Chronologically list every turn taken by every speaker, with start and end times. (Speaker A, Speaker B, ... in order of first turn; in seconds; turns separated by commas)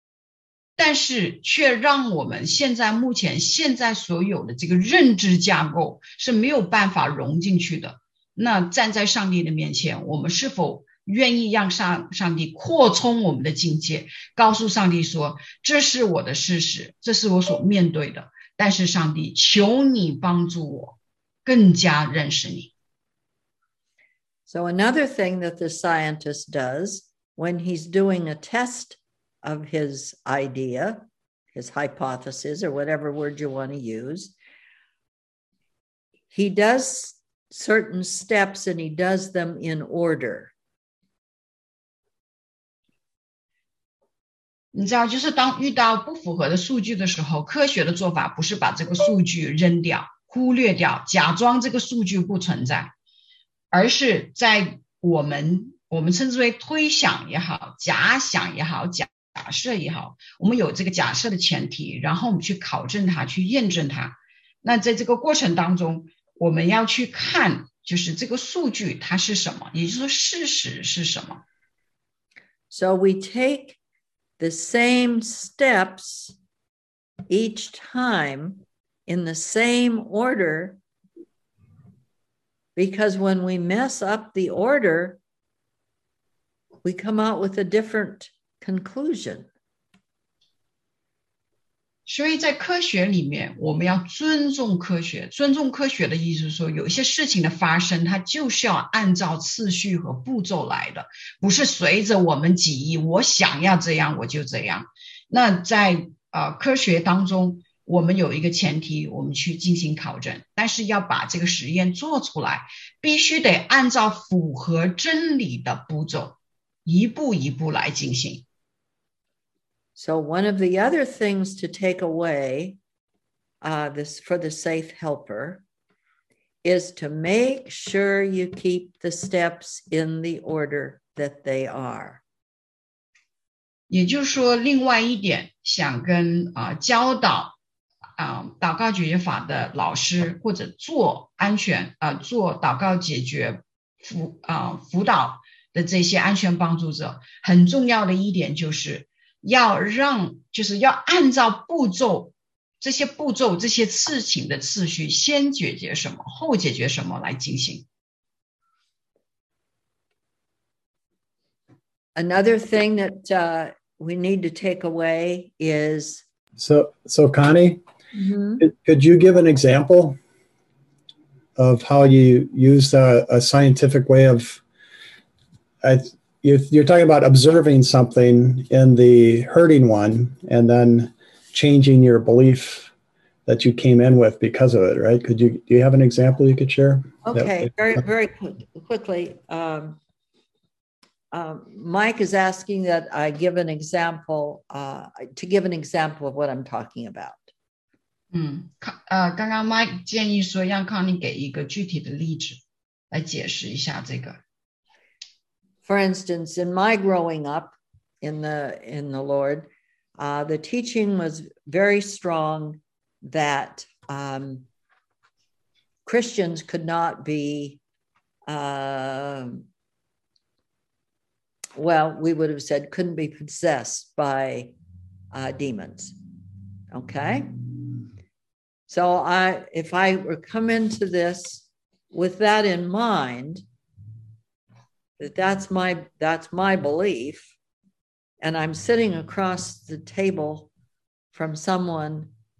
Speaker A: 0.8-22.7, Speaker B: 24.5-34.3, Speaker B: 36.3-40.5, Speaker A: 44.7-52.9, Speaker A: 53.7-71.4, Speaker B: 72.7-73.8, Speaker B: 74.4-76.4, Speaker B: 77.3-80.8, Speaker B: 82.8-85.2, Speaker B: 86.8-89.5, Speaker A: 92.1-118.5, Speaker B: 120.0-122.8, Speaker B: 123.6-125.6, Speaker B: 126.6-132.2, Speaker A: 133.9-137.6, Speaker A: 138.2-157.9, Speaker B: 162.2-166.2, Speaker C: 166.6-167.8, Speaker B: 168.1-168.6, Speaker C: 168.6-170.2, Speaker C: 171.6-174.6, Speaker C: 175.8-182.9, Speaker C: 183.5-187.7, Speaker B: 187.2-190.0, Speaker B: 191.3-197.5, Speaker A: 198.3-202.6, Speaker A: 203.1-204.4, Speaker B: 205.8-209.7, Speaker B: 210.2-214.7, Speaker B: 216.1-217.8, Speaker B: 218.5-219.7, Speaker B: 221.8-224.7, Speaker B: 225.3-226.2, Speaker B: 226.9-227.5, Speaker B: 228.9-233.6, Speaker B: 235.2-237.5, Speaker B: 238.4-240.7, Speaker B: 241.3-242.3